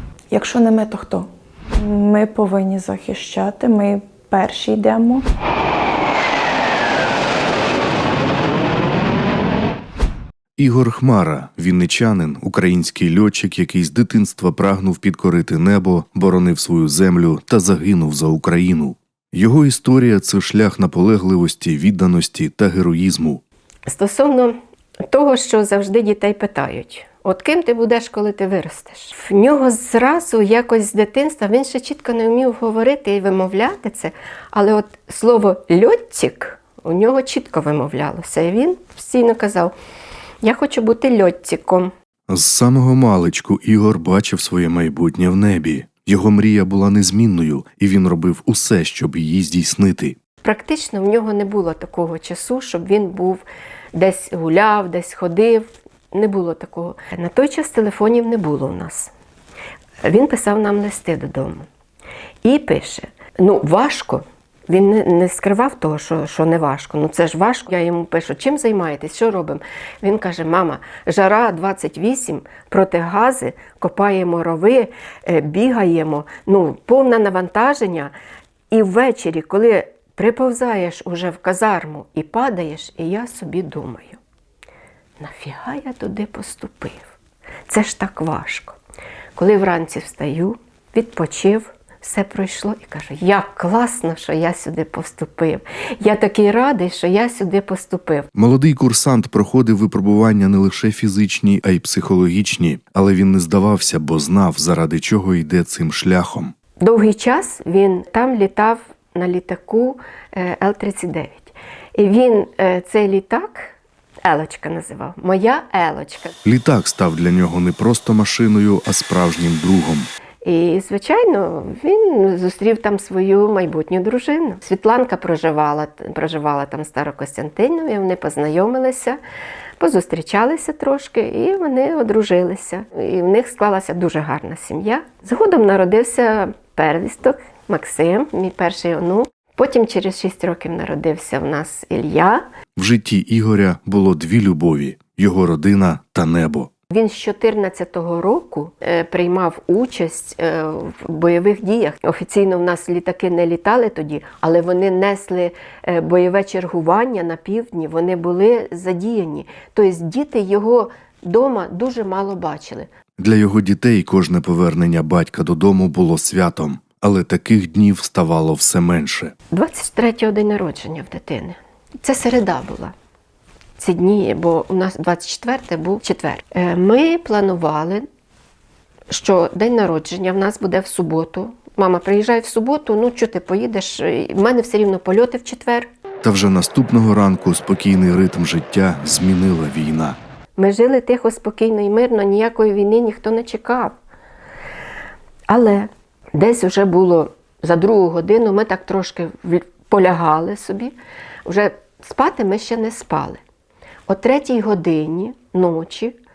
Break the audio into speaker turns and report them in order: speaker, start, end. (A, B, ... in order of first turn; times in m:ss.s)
0:00.3-0:05.2 A
0:10.6-0:23.4 B
0:23.9-0:24.6 C
0:25.1-0:39.7 C
0:40.4-0:41.9 C
0:42.3-0:50.2 B
0:50.4-0:53.4 C
0:53.9-0:59.1 C
1:00.0-1:01.7 C
1:02.4-1:18.1 C
1:18.7-1:24.2 C
1:25.2-1:27.2 C
1:27.7-1:28.8 C
1:29.4-1:38.3 C
1:38.4-1:46.5 B
1:46.8-1:56.3 C
1:56.4-2:00.1 B
2:00.4-2:09.2 C
2:09.8-2:22.4 C
2:22.8-2:26.7 B
2:26.9-2:42.9 C
2:43.2-2:49.3 B
2:49.5-2:52.9 C
2:53.8-2:58.1 C
2:59.1-3:05.9 C
3:06.2-3:10.2 B
3:10.6-3:14.0 C
3:15.5-3:20.9 C
3:21.5-3:23.4 C
3:24.1-3:26.2 C